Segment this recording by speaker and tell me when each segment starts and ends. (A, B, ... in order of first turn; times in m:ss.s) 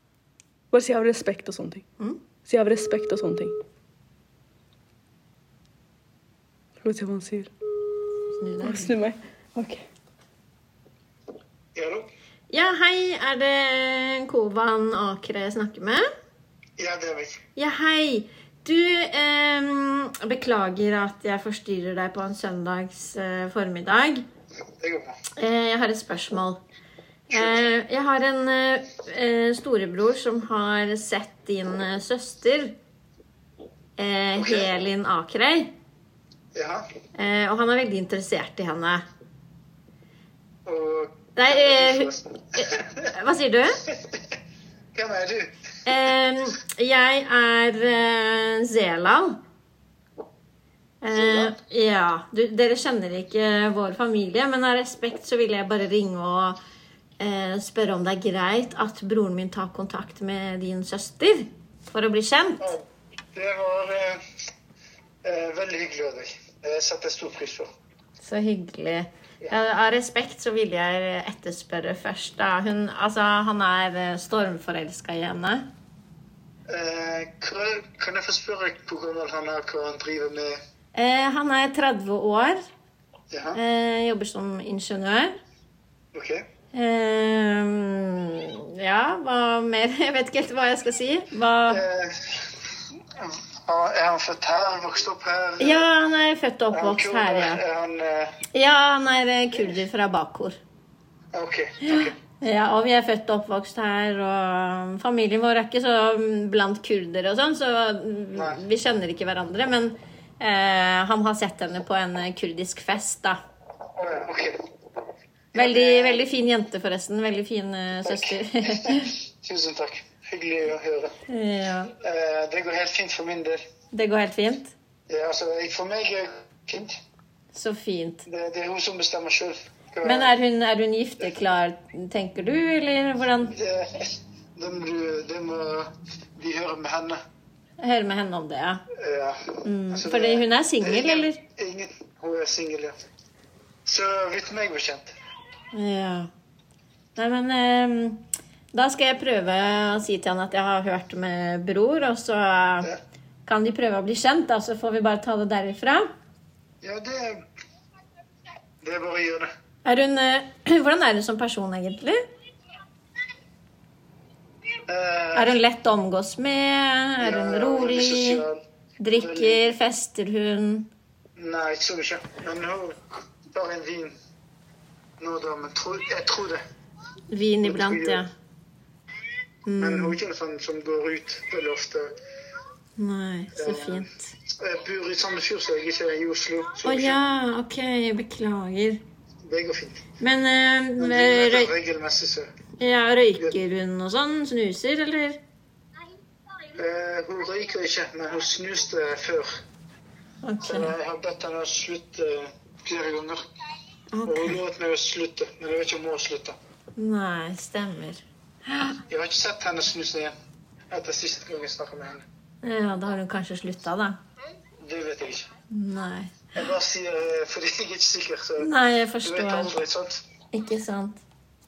0:00.7-0:01.9 A
0:02.4-0:03.6 A
0:06.8-0:07.5 A
0:08.4-0:08.9 B
0:08.6-0:09.8 A
0:11.8-0:12.1 C
0:12.5-0:16.1 B
0:16.8-0:17.4 C
0:17.6-0:24.3 B
0:24.8-0:25.2 C
0:25.4-0:26.6 B
0:27.3-0:32.8 B
0:27.3-0:27.7 C
0:34.0-0:35.7 B
0:34.4-0:34.7 C
0:36.6-0:36.8 C
0:37.2-0:39.0 B
0:40.7-0:43.0 C
0:41.4-0:43.8 B
0:44.9-0:45.5 C
0:45.9-0:49.4 B
0:51.0-0:56.6 B
0:57.2-1:02.7 B
1:03.3-1:04.2 C
1:05.2-1:07.7 C
1:08.2-1:15.7 B
1:16.7-1:20.6 C
1:21.0-1:22.6 B
1:23.3-1:23.6 C
1:23.5-1:25.4 B
1:26.1-1:26.4 C
1:26.7-1:31.8 B
1:31.7-1:32.6 C
1:33.2-1:35.9 C
1:35.6-1:37.6 B
1:36.7-1:38.4 C
1:38.5-1:40.6 B
1:41.3-1:42.2 C
1:41.8-1:53.4 B
1:54.0-1:54.6 C
1:55.5-1:56.2 C
1:55.6-1:59.2 B
1:58.1-2:01.2 C
2:01.3-2:01.9 B
2:02.0-2:03.6 C
2:03.9-2:04.7 B
2:05.1-2:07.0 C
2:07.5-2:08.2 B
2:08.3-2:10.3 C
2:10.0-2:13.6 B
2:13.5-2:17.2 C
2:17.8-2:18.8 B
2:18.9-2:23.0 C
2:19.6-2:21.4 B
2:23.9-2:25.1 C
2:25.7-2:26.3 B
2:27.2-2:28.2 B
2:28.7-2:32.9 B
2:33.5-2:36.1 B
2:36.8-2:37.4 C
2:38.8-2:39.5 C
2:39.8-2:42.2 B
2:44.9-2:45.6 C
2:45.4-2:48.4 B
2:47.2-2:48.6 C
2:49.0-2:50.9 B
2:49.2-2:49.7 C
2:51.4-2:53.0 C
2:53.5-2:54.2 C
2:55.2-2:56.6 C
2:57.3-2:58.3 B
2:57.6-2:58.2 C
2:59.7-3:00.2 B
2:59.8-3:02.1 C
3:03.0-3:04.3 B
3:03.6-3:07.2 C
3:06.8-3:09.0 B
3:09.4-3:10.0 C
3:10.2-3:11.7 B
3:11.0-3:12.5 C
3:12.8-3:15.4 B
3:16.8-3:19.6 C
3:20.4-3:20.9 B
3:20.6-3:23.5 C
3:24.1-3:24.6 B
3:24.3-3:26.6 C
3:27.0-3:29.0 B
3:29.1-3:30.3 C
3:30.9-3:32.2 C
3:32.6-3:34.2 B
3:34.8-3:35.5 C
3:35.7-3:36.4 B
3:36.6-3:38.7 C
3:38.6-3:39.7 B
3:39.2-3:40.2 C
3:40.5-3:41.2 B